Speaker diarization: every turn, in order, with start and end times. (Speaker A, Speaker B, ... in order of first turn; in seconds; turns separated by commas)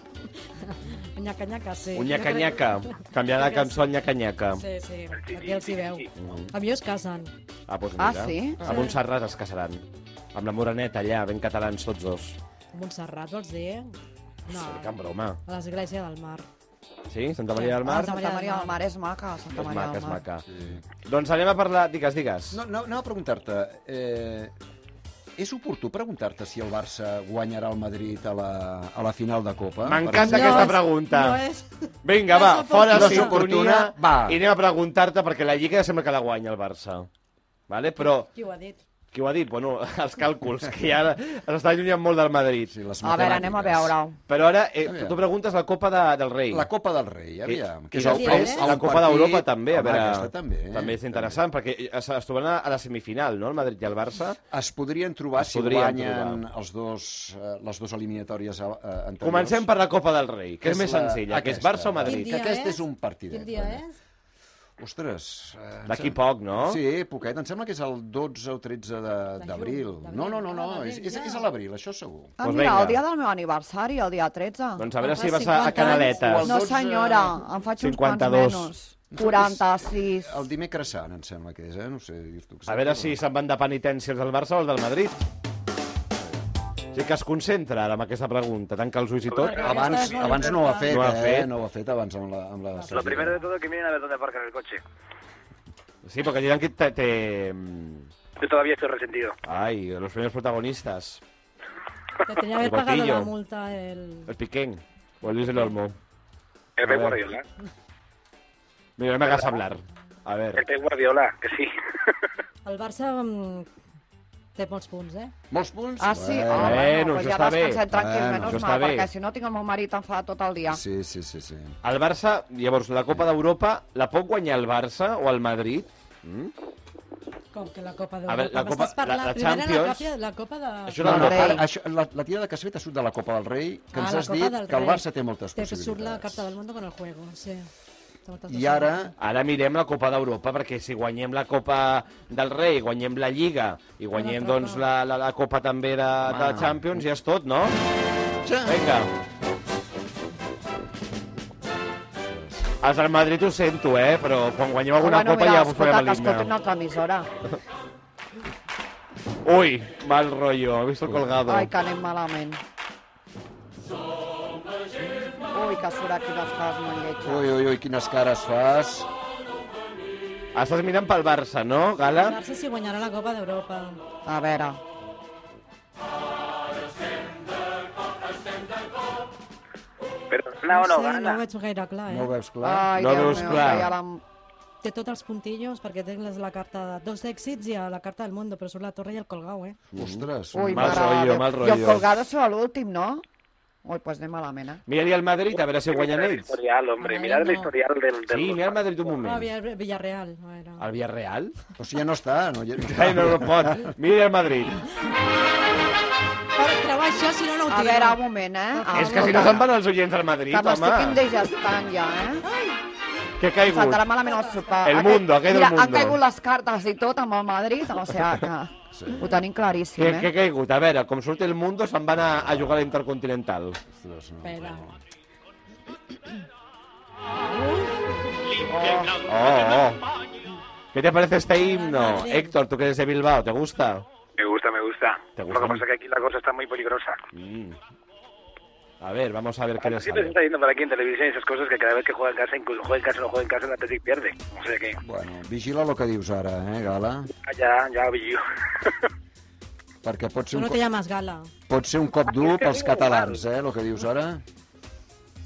Speaker A: 0.6-3.9, Speaker B: 1.9-4.6, Speaker A: 4.5-7.3, Speaker C: 5.2-6.1, Speaker B: 6.2-6.5, Speaker B: 7.7-9.8, Speaker D: 8.0-8.7, Speaker A: 8.6-9.0, Speaker B: 10.3-12.4, Speaker A: 12.7-13.9, Speaker A: 14.5-16.5, Speaker B: 14.5-15.4, Speaker B: 17.1-18.2, Speaker A: 17.5-18.8, Speaker D: 17.8-20.2, Speaker B: 19.5-20.4, Speaker E: 20.5-20.8, Speaker B: 21.0-22.6, Speaker E: 22.5-24.5, Speaker E: 25.4-30.7, Speaker B: 29.8-31.4, Speaker A: 30.1-33.4, Speaker B: 32.0-37.1, Speaker E: 32.9-34.4, Speaker B: 37.7-38.3, Speaker A: 38.0-38.8, Speaker B: 39.1-42.7, Speaker E: 42.7-43.9, Speaker D: 43.0-44.2, Speaker B: 44.3-46.7, Speaker E: 44.8-45.2, Speaker E: 46.5-51.4, Speaker B: 47.4-54.4, Speaker A: 48.0-48.7, Speaker E: 54.5-59.7, Speaker B: 55.4-56.4, Speaker B: 59.2-62.3, Speaker E: 60.6-63.8, Speaker A: 62.0-64.0, Speaker E: 64.8-72.4, Speaker B: 65.9-66.8, Speaker A: 69.4-71.5, Speaker D: 72.4-74.9, Speaker B: 72.4-73.0, Speaker B: 74.8-76.5, Speaker A: 75.0-76.2, Speaker E: 76.0-77.5, Speaker D: 76.4-80.4, Speaker B: 77.8-78.7, Speaker E: 79.1-83.2, Speaker B: 82.7-85.2, Speaker E: 86.2-86.4, Speaker B: 86.9-89.9, Speaker C: 89.3-90.4, Speaker A: 89.3-91.0, Speaker E: 89.6-93.4, Speaker B: 90.9-91.5, Speaker A: 92.7-93.4, Speaker C: 92.9-94.8, Speaker B: 96.0-98.1, Speaker C: 98.4-99.4, Speaker B: 99.4-101.2, Speaker A: 102.2-104.3, Speaker B: 102.6-103.3, Speaker B: 104.3-106.0, Speaker C: 106.8-107.4, Speaker B: 106.8-107.2, Speaker B: 109.0-110.6, Speaker C: 110.5-112.2, Speaker A: 112.6-113.7, Speaker A: 114.5-115.3, Speaker E: 115.5-116.9, Speaker D: 116.0-120.8, Speaker B: 116.5-117.8, Speaker E: 117.9-118.7, Speaker B: 118.4-119.1, Speaker E: 120.7-121.8, Speaker B: 121.8-126.5, Speaker A: 127.5-131.3, Speaker B: 128.3-130.1, Speaker B: 130.8-131.6, Speaker E: 131.0-136.5, Speaker D: 131.0-131.6, Speaker A: 133.9-137.7, Speaker A: 138.2-139.1, Speaker E: 138.5-139.1, Speaker B: 139.2-147.8, Speaker A: 144.1-144.8, Speaker E: 146.2-147.0, Speaker E: 148.4-148.8, Speaker B: 148.7-149.1, Speaker E: 152.2-152.7, Speaker B: 152.8-156.5, Speaker D: 155.0-157.3, Speaker B: 159.4-161.7, Speaker D: 161.4-162.6, Speaker D: 165.5-167.5, Speaker E: 167.2-169.1, Speaker B: 170.5-172.4, Speaker A: 172.1-174.0, Speaker D: 174.2-174.8, Speaker C: 180.3-181.4, Speaker A: 180.7-182.3, Speaker E: 182.1-183.7, Speaker D: 182.6-184.2, Speaker B: 182.9-183.9, Speaker A: 184.8-189.8, Speaker E: 189.9-191.1, Speaker B: 189.9-192.1, Speaker D: 190.5-193.2, Speaker D: 193.8-194.8, Speaker B: 194.9-196.6, Speaker C: 195.9-199.1, Speaker A: 197.0-197.7, Speaker B: 198.3-199.5, Speaker A: 199.2-200.8, Speaker B: 200.8-201.5, Speaker E: 201.8-203.9, Speaker B: 202.8-204.8, Speaker A: 206.5-208.2, Speaker D: 207.7-209.7, Speaker A: 208.7-209.6, Speaker B: 208.9-211.2, Speaker D: 210.5-212.4, Speaker A: 212.5-212.8, Speaker B: 213.4-214.1, Speaker D: 213.6-220.3, Speaker A: 214.2-214.7, Speaker B: 214.8-216.2, Speaker E: 218.9-219.3, Speaker B: 219.9-223.8, Speaker E: 223.9-225.0, Speaker A: 224.4-224.9, Speaker A: 227.6-227.9, Speaker D: 228.7-229.2, Speaker B: 229.2-230.0, Speaker B: 230.9-234.1, Speaker A: 231.5-232.5, Speaker C: 234.4-237.2, Speaker B: 235.3-235.8, Speaker B: 237.3-237.8, Speaker B: 239.0-240.3, Speaker C: 239.8-245.0, Speaker E: 245.0-247.3, Speaker C: 247.4-249.0, Speaker E: 250.0-250.8, Speaker A: 250.5-251.5, Speaker E: 251.7-254.4, Speaker C: 252.3-253.4